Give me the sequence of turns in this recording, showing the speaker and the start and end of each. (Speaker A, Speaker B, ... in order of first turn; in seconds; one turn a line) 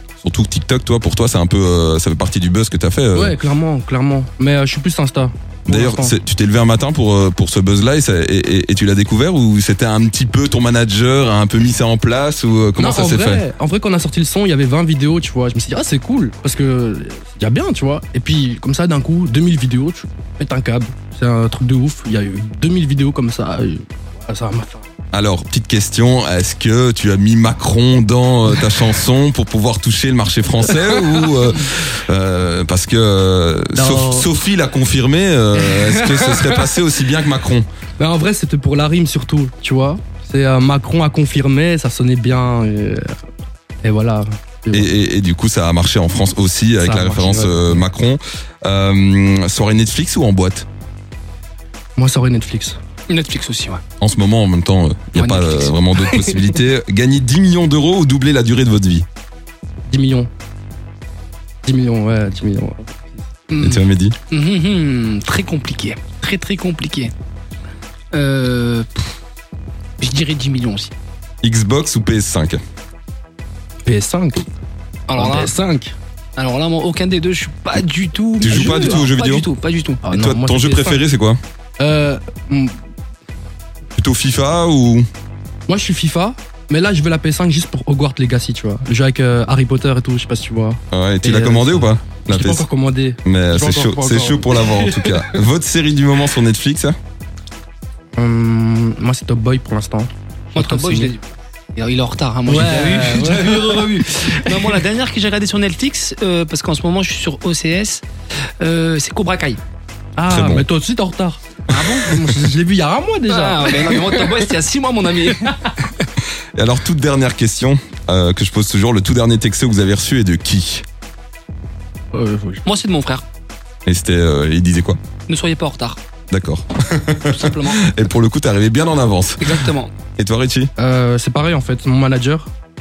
Speaker A: 0.2-3.4
Speaker B: 3.1-6.2
Speaker A: 5.7-13.4
Speaker B: 12.8-24.9
Speaker A: 25.1-37.6
Speaker B: 31.0-31.3
Speaker B: 33.7-34.3
Speaker B: 35.5-36.7
Speaker B: 38.0-43.1
Speaker B: 43.8-44.9
Speaker A: 44.7-50.6
Speaker B: 46.8-47.8
Speaker B: 52.0-52.8
Speaker C: 53.1-53.8
Speaker A: 54.0-59.0
Speaker C: 55.1-56.6
Speaker B: 59.9-60.3
Speaker B: 61.6-63.2
Speaker C: 63.5-67.1
Speaker A: 63.6-64.2
Speaker C: 68.1-69.0
Speaker C: 70.0-70.9
Speaker A: 71.4-72.6
Speaker B: 73.8-74.5
Speaker C: 75.1-75.5
Speaker B: 75.1-75.9
Speaker C: 76.4-80.0
Speaker A: 78.4-79.4
Speaker B: 78.4-79.1
Speaker B: 80.0-81.0
Speaker A: 80.1-81.4
Speaker B: 81.8-82.8
Speaker A: 84.0-85.0
Speaker B: 85.7-95.4
Speaker A: 90.9-92.7
Speaker A: 93.2-97.0
Speaker B: 98.2-101.1
Speaker C: 100.5-108.0
Speaker B: 102.5-104.8
Speaker C: 108.6-109.6
Speaker B: 110.2-111.4
Speaker A: 110.3-110.6
Speaker C: 111.7-112.3
Speaker B: 112.0-114.5
Speaker C: 113.3-116.0
Speaker A: 116.5-120.8
Speaker B: 122.1-122.6
Speaker C: 122.6-123.2
Speaker A: 123.8-125.0
Speaker C: 125.3-126.0
Speaker A: 126.3-129.6
Speaker C: 127.2-127.9
Speaker C: 129.4-129.9
Speaker A: 130.2-130.7
Speaker B: 130.8-132.5